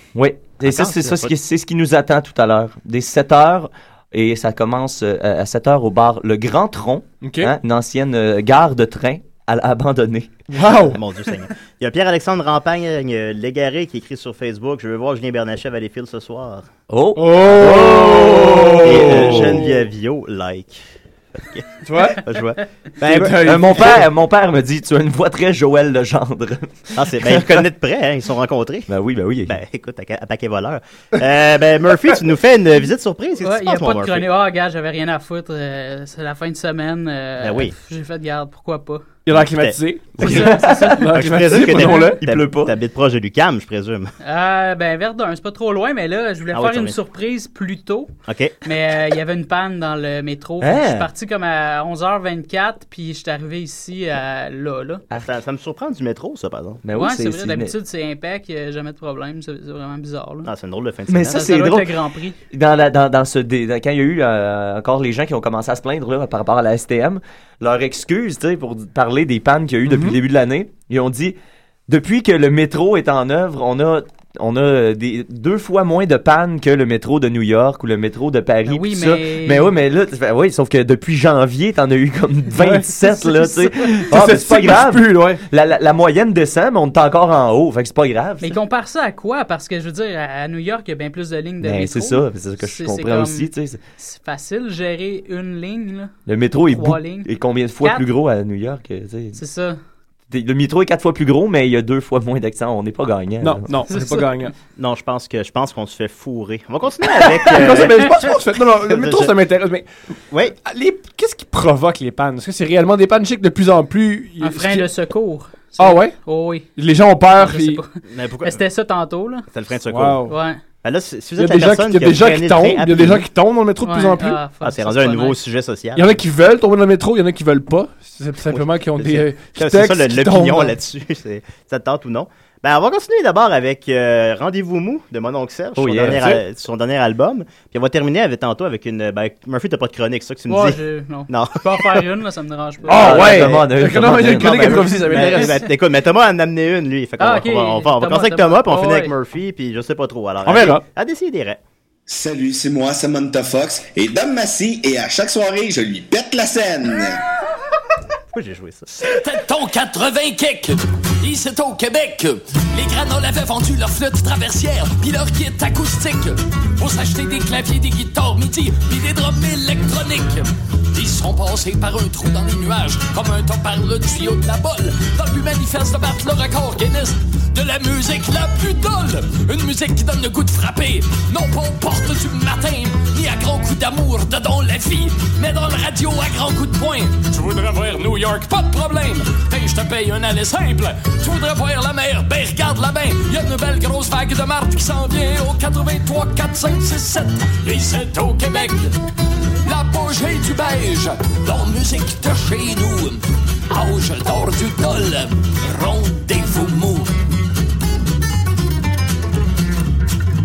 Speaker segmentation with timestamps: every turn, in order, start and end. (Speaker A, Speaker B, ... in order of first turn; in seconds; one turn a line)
Speaker A: 0.1-10.3
Speaker B: 0.6-1.3
Speaker C: 7.2-7.5
Speaker C: 10.5-11.0
Speaker B: 10.7-16.7
Speaker A: 16.9-19.6
Speaker C: 17.1-19.8
Speaker B: 18.8-20.8
Speaker B: 21.4-24.0
Speaker C: 21.8-22.2
Speaker C: 23.0-24.1
Speaker A: 23.2-27.6
Speaker B: 26.9-28.9
Speaker A: 28.9-29.6
Speaker B: 29.4-34.3
Speaker D: 33.4-39.0
Speaker B: 37.4-37.7
Speaker C: 39.2-42.2
Speaker B: 39.3-44.1
Speaker D: 40.2-41.1
Speaker A: 40.4-40.8
Speaker D: 41.7-42.0
Speaker A: 42.1-42.7
Speaker D: 44.2-48.1
Speaker B: 46.5-47.0
Speaker B: 48.3-48.6
Speaker D: 48.6-55.0
Speaker A: 50.6-51.1
Speaker B: 55.1-56.8
Speaker A: 56.8-57.7
Speaker D: 56.9-60.5
Speaker B: 60.4-61.5
Speaker A: 61.1-61.9
Speaker D: 61.2-62.4
Speaker A: 62.5-71.3
Speaker C: 69.8-70.2
Speaker A: 71.9-88.6
Speaker D: 78.7-79.7
Speaker C: 82.6-85.4
Speaker D: 88.4-96.1
Speaker A: 91.6-93.8
Speaker A: 96.2-99.4
Speaker D: 96.7-98.1
Speaker D: 99.3-99.8
Speaker A: 100.3-103.7
Speaker C: 103.4-104.5
Speaker D: 103.9-104.3
Speaker B: 104.8-109.3
Speaker C: 107.1-109.9
Speaker B: 110.3-110.5
Speaker C: 110.6-114.9
Speaker D: 114.4-116.7
Speaker C: 115.8-116.2
Speaker C: 116.7-117.8
Speaker D: 117.3-117.9
Speaker B: 118.1-118.6
Speaker D: 118.4-119.5
Speaker B: 119.5-120.3
Speaker C: 119.9-120.3
Speaker D: 120.3-120.6
Speaker B: 120.8-123.3
Speaker C: 121.4-124.4
Speaker D: 123.8-125.4
Speaker B: 124.6-126.2
Speaker C: 125.9-130.8
Speaker B: 128.5-141.9
Speaker A: 135.8-136.3
Speaker C: 136.0-136.4
Speaker D: 140.5-143.3
Speaker C: 142.8-145.6
Speaker A: 142.9-145.0
Speaker B: 143.1-151.6
Speaker D: 145.2-145.6
Speaker D: 147.2-149.1
Speaker C: 150.4-150.8
Speaker E: 152.1-157.2
Speaker B: 158.3-158.9
Speaker F: 158.9-198.9
Speaker F: 199.6-207.1